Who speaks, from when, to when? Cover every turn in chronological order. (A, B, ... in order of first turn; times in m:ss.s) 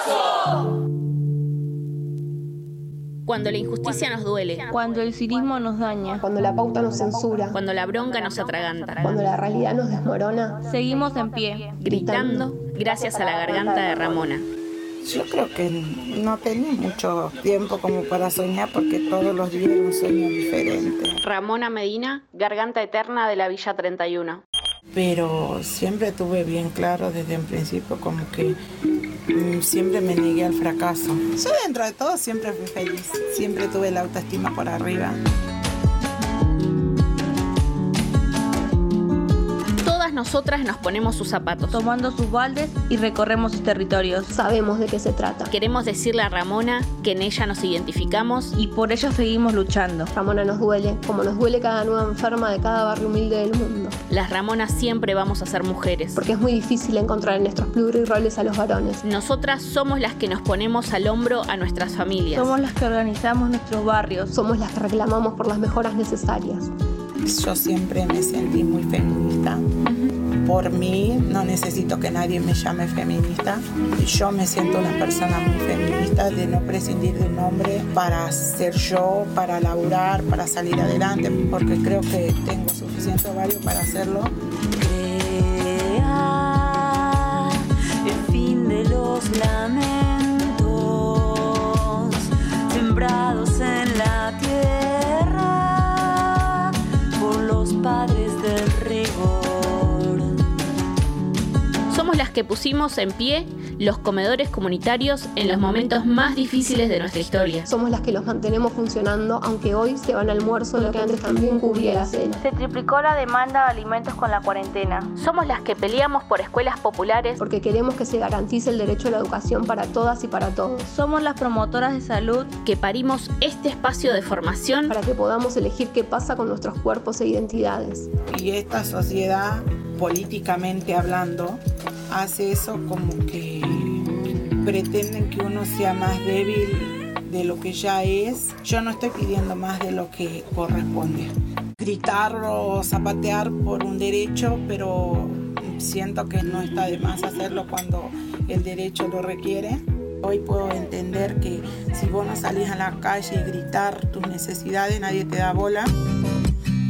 0:03.3-0:04.7 A
0:04.7-0:06.2 B
0:06.2-0:07.6 C
0:07.5-0:09.4 A
0:09.0-0:10.7 C
0:10.6-0:11.8 B
0:11.8-0:14.5 A
0:11.8-0:14.3 C
0:15.0-0:21.2 D
0:21.2-0:24.4 A
0:24.9-0:28.6 D
0:29.3-0:35.2 D
0:39.8-0:41.8 A
0:41.7-0:44.3 B
0:44.3-0:45.5 C
0:45.5-0:48.6 A
0:48.6-0:50.1 B
0:50.1-0:54.0 C
0:54.1-0:56.2 A
0:56.2-0:59.0 C
0:59.0-1:02.6 A
1:02.3-1:04.3 B
1:04.3-1:06.7 C
1:07.2-1:09.7 D
1:10.4-1:24.3 D
1:24.8-1:40.2 E
1:41.9-1:47.7 A
1:47.7-1:52.4 C
1:50.7-1:55.1 B
1:55.2-1:57.4 A
1:57.4-2:00.9 C
2:00.9-2:02.5 B
2:02.6-2:05.0 A
2:04.9-2:08.1 C
2:08.3-2:35.9 D